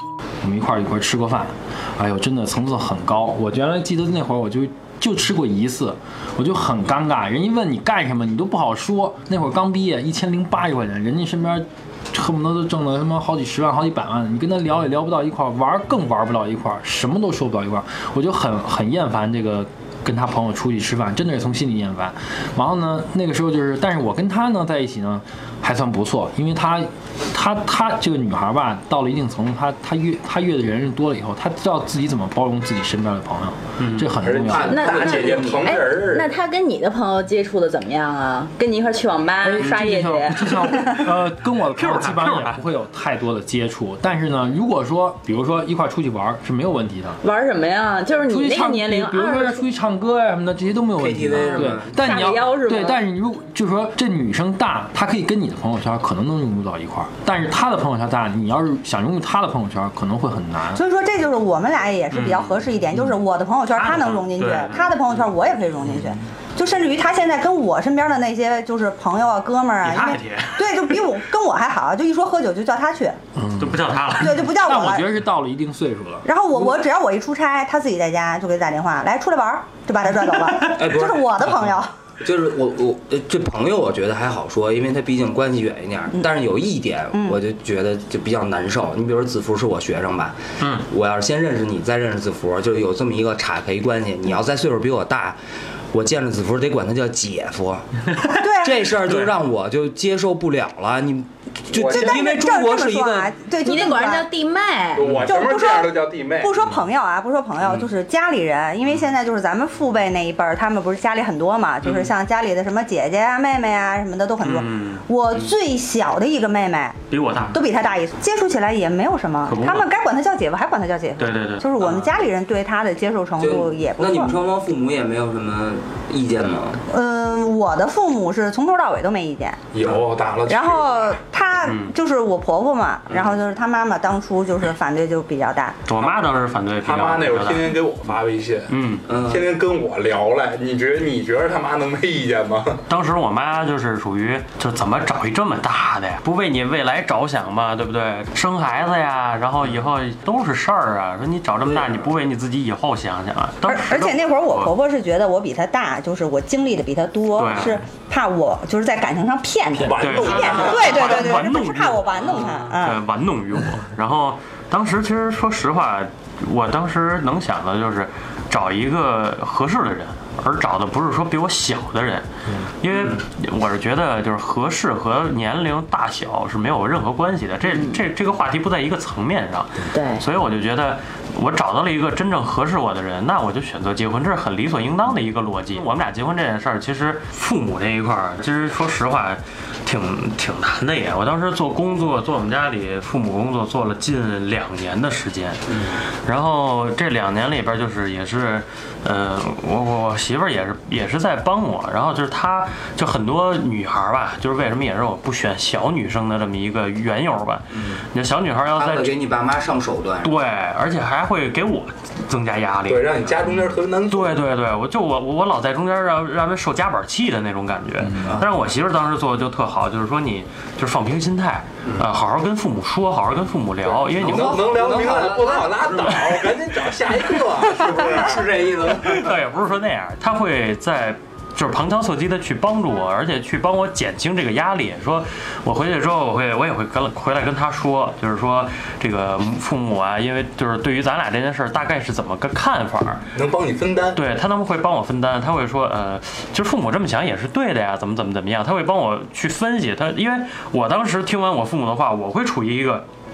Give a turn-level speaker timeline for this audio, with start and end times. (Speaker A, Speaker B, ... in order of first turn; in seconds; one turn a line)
Speaker A: 0.4-34.8
Speaker B: 33.8-34.1
Speaker C: 34.2-36.3
Speaker D: 34.4-35.8
Speaker E: 34.7-40.6
Speaker A: 39.4-47.2
Speaker B: 41.8-42.6
Speaker E: 47.2-49.6
Speaker A: 48.3-60.8
Speaker D: 51.0-52.0
Speaker E: 51.4-53.0
Speaker F: 60.7-73.2
Speaker B: 62.1-62.5
Speaker B: 63.8-64.9
Speaker B: 69.8-71.0
Speaker A: 73.3-76.2
Speaker B: 73.6-74.5
Speaker F: 74.2-75.1
Speaker F: 76.2-81.9
Speaker D: 80.6-81.5
Speaker D: 82.2-95.4
Speaker F: 87.1-87.4
Speaker D: 95.9-103.3
Speaker F: 98.3-98.9
Speaker B: 99.0-99.3
Speaker C: 101.7-102.2
Speaker F: 101.9-104.3
Speaker E: 103.6-105.0
Speaker C: 104.9-106.6
Speaker F: 105.2-124.3
Speaker B: 114.4-115.0
Speaker B: 117.1-117.6
Speaker B: 119.5-119.9
Speaker B: 121.2-122.0
Speaker D: 123.4-126.8
Speaker F: 126.9-129.6
Speaker C: 129.7-131.1
Speaker F: 130.5-135.8
Speaker B: 131.6-131.9
Speaker B: 135.9-137.8
Speaker C: 136.8-142.8
Speaker B: 138.7-139.1
Speaker D: 139.1-139.5
Speaker B: 142.9-154.7
Speaker F: 153.6-163.0
Speaker B: 157.4-157.8
Speaker C: 159.8-161.3
Speaker B: 160.0-172.3
Speaker D: 162.3-162.6
Speaker B: 172.8-195.7
Speaker E: 177.7-178.0
Speaker E: 179.9-180.2
Speaker D: 195.7-196.0
Speaker B: 196.2-209.1
Speaker D: 208.8-210.3
Speaker B: 210.2-213.2
Speaker C: 212.9-214.4
Speaker B: 214.1-224.7
Speaker D: 218.2-218.5
Speaker C: 224.1-228.9
Speaker D: 224.1-226.5
Speaker D: 227.7-229.3
Speaker B: 229.0-243.2
Speaker C: 243.3-244.2
Speaker B: 244.2-253.1